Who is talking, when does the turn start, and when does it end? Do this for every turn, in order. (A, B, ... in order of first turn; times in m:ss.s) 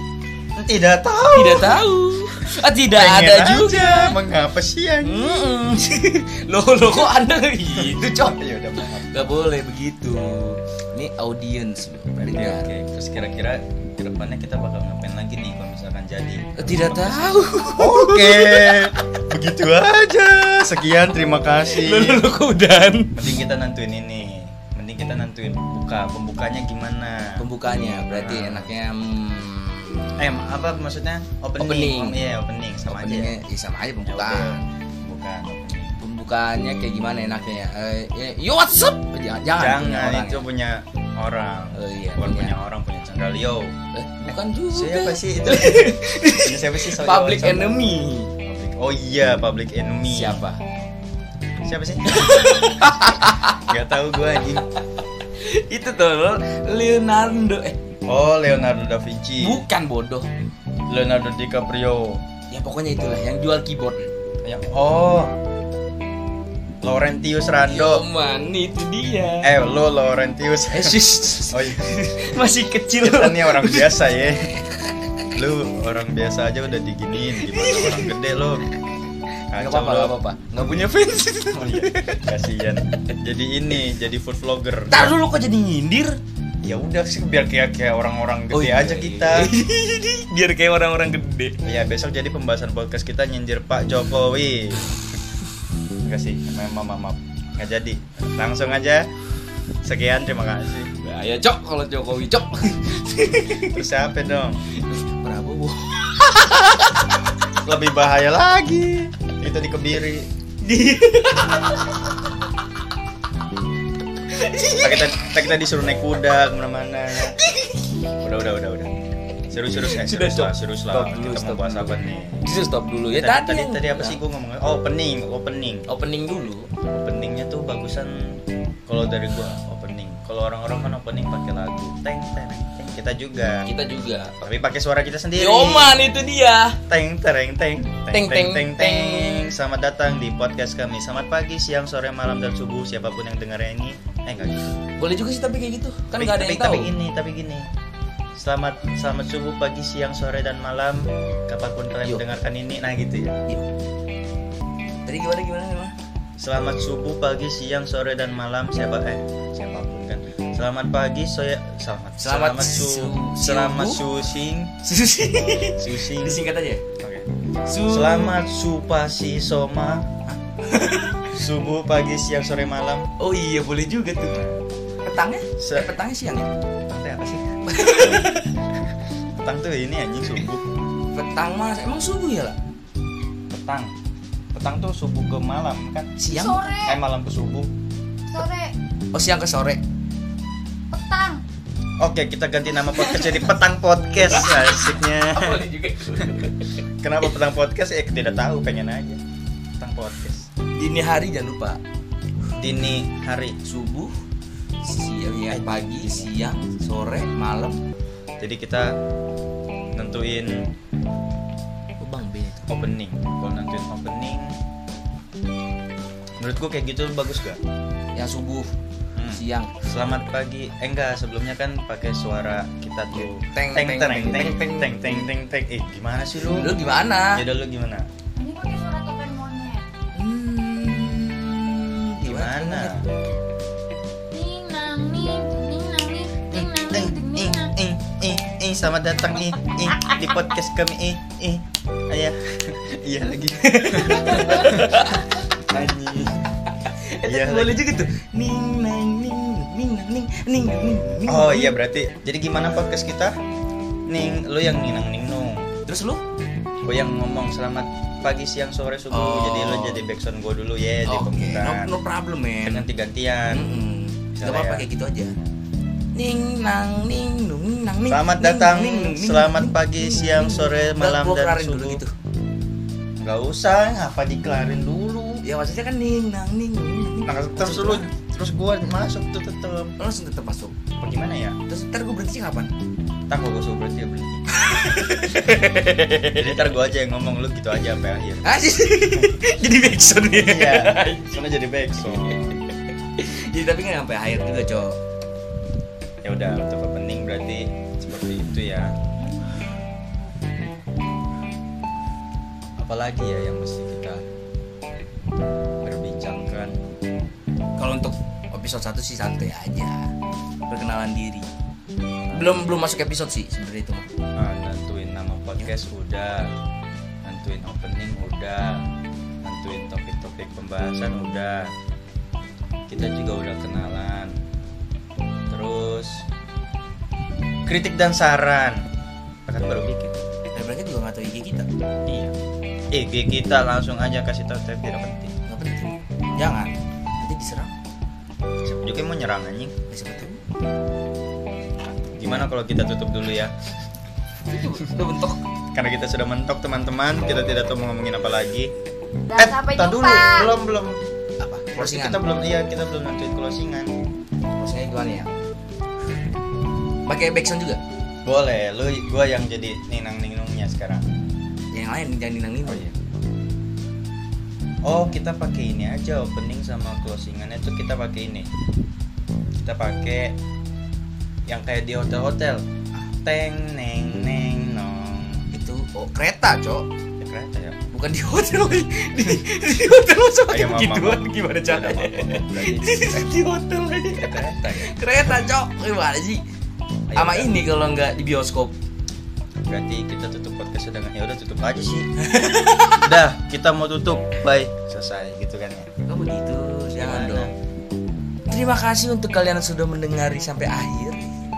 0:00.6-0:01.8 A
0:01.3-0:04.2 B
0:02.8-0:05.2 A
0:05.0-0:12.7 B
0:07.7-0:09.3 A
0:12.2-0:22.3 A
0:16.6-0:18.9 B
0:21.6-0:23.3 B
0:23.1-0:27.4 A
0:27.4-0:30.1 B
0:28.1-0:28.7 A
0:30.2-0:33.4 A
0:31.6-0:32.2 B
0:32.8-0:34.6 B
0:34.0-0:35.9 A
0:36.0-0:40.4 B
0:39.6-0:50.4 A
0:41.7-0:42.5 B
0:43.9-0:48.3 B
0:50.1-0:50.6 B
0:51.6-0:54.7 A
0:52.1-0:53.7 B
0:55.4-0:57.8 B
0:58.1-0:59.6 A
0:59.4-1:00.3 B
1:00.9-1:02.2 A
1:02.5-1:04.0 B
1:04.4-1:05.3 A
1:06.8-1:08.0 A
1:07.6-1:09.5 B
1:09.4-1:12.4 A
1:10.7-1:14.0 B
1:13.0-1:14.5 A
1:15.3-1:18.6 A
1:17.2-1:18.2 B
1:19.5-1:20.2 A
1:19.6-1:22.2 B
1:21.5-1:25.2 A
1:24.9-1:26.2 B
1:26.6-1:29.5 A
1:28.5-1:31.6 B
1:31.6-1:34.9 A
1:36.0-1:39.1 A
1:39.8-1:40.9 A
1:41.0-1:43.8 B
1:43.5-1:44.6 A
1:44.8-1:47.1 B
1:47.6-1:50.3 A
1:50.6-1:52.1 B
1:54.3-1:55.2 B
1:54.8-1:57.4 A
1:57.4-1:57.9 B
1:58.2-1:58.9 A
1:59.5-2:02.4 A
1:59.8-2:04.2 B
2:03.1-2:05.9 A
2:05.9-2:06.7 B
2:06.9-2:13.6 A
2:13.6-2:14.3 B
2:14.4-2:16.0 A
2:15.4-2:16.8 B
2:16.9-2:24.7 A
2:18.1-2:19.5 B
2:25.0-2:26.9 B
2:26.1-2:27.7 A
2:28.4-2:33.4 A
2:35.0-2:35.9 B
2:36.4-2:44.7 A
2:42.2-2:44.0 B
2:44.8-2:46.8 B
2:45.8-2:46.4 A
2:47.0-2:47.3 A
2:47.7-2:48.4 B
2:47.8-2:50.1 A
2:50.3-2:51.3 B
2:51.3-2:53.1 A
2:53.2-2:54.4 B
2:54.3-2:54.6 A
2:55.0-2:56.5 B
2:55.6-2:55.9 A
2:56.9-2:58.4 A
2:57.7-2:58.5 B
2:59.4-3:00.6 A
3:01.1-3:02.6 B
3:03.5-3:03.9 A
3:04.5-3:06.2 A
3:06.2-3:06.8 B
3:06.3-3:07.0 C
3:06.8-3:07.7 A
3:08.3-3:08.7 C
3:09.1-3:09.8 B
3:10.9-3:11.4 C
3:12.0-3:15.6 A
3:13.0-3:13.5 B
3:14.2-3:16.8 B
3:17.0-3:19.2 A
3:19.8-3:20.5 A
3:20.8-3:21.8 B
3:22.6-3:23.6 A
3:23.6-3:24.2 B
3:24.8-3:27.8 B
3:25.5-3:26.3 A
3:28.4-3:28.9 A
3:29.9-3:30.7 A
3:32.0-3:32.7 B
3:32.7-3:34.5 A
3:36.4-3:37.6 A
3:38.1-3:38.7 B
3:39.2-3:46.8 A
3:39.3-3:39.7 B
3:43.1-3:45.3 B
3:46.5-3:47.4 B
3:47.3-3:48.1 A
3:48.4-3:49.8 C
3:50.2-3:52.9 B
3:52.2-3:53.0 A
3:54.3-3:57.7 C
3:56.5-4:05.2 A
4:03.6-4:05.3 B
4:05.7-4:06.4 A
4:06.8-4:11.8 B
4:07.2-4:08.0 A
4:11.3-4:13.3 A
4:14.1-4:15.6 A
4:15.8-4:16.2 B
4:16.8-4:21.9 A
4:19.1-4:20.0 B
4:21.0-4:22.8 B
4:22.6-4:23.6 A
4:23.5-4:25.3 B
4:24.3-4:24.9 A
4:26.2-4:32.1 B
4:28.1-4:32.0 A
4:33.2-4:35.4 A
4:35.4-4:38.1 B
4:37.2-4:39.9 A
4:40.0-4:40.7 B
4:41.0-4:41.6 A
4:41.7-4:42.7 B
4:43.3-4:44.4 A
4:44.6-4:46.6 B
4:46.3-4:48.5 A
4:48.4-4:51.4 B
4:50.3-4:52.6 A
4:53.2-4:55.0 B
4:56.2-4:58.9 A
5:02.8-5:04.2 A
5:05.8-5:06.8 A
5:07.8-5:10.1 B
5:10.6-5:11.5 B
5:12.3-5:12.8 A
5:12.3-5:14.1 B
5:14.4-5:16.5 A
5:17.2-5:18.8 A
5:19.4-5:21.7 A
5:22.9-5:24.4 A
5:25.5-5:26.2 A
5:27.6-5:28.8 A
5:29.5-5:30.2 A
5:30.5-5:31.7 B
5:32.1-5:32.3 A
5:32.9-5:35.3 A
5:35.5-5:37.7 B
5:38.6-5:39.7 A
5:39.9-5:40.4 B
5:42.2-5:43.5 A
5:44.5-5:45.4 B
5:45.7-5:48.7 A
5:49.3-5:50.5 C
5:49.3-5:53.9 A
5:51.6-5:52.2 B
5:54.6-5:55.3 B
5:57.1-5:57.8 B
5:58.2-6:01.0 A
6:01.7-6:02.8 B
6:02.6-6:02.9 A
6:04.8-6:08.5 A
6:09.6-6:10.4 A
6:11.5-6:15.4 A
6:15.5-6:16.9 B
6:17.2-6:17.8 A
6:17.9-6:26.4 B
6:20.5-6:23.3 A
6:24.1-6:24.9 A
6:27.1-6:27.5 A
6:27.1-6:28.7 B
6:29.7-6:32.1 A
6:32.2-6:33.0 B
6:33.0-6:35.9 A
6:36.1-6:37.5 B
6:36.9-6:37.5 A
6:38.5-6:41.3 B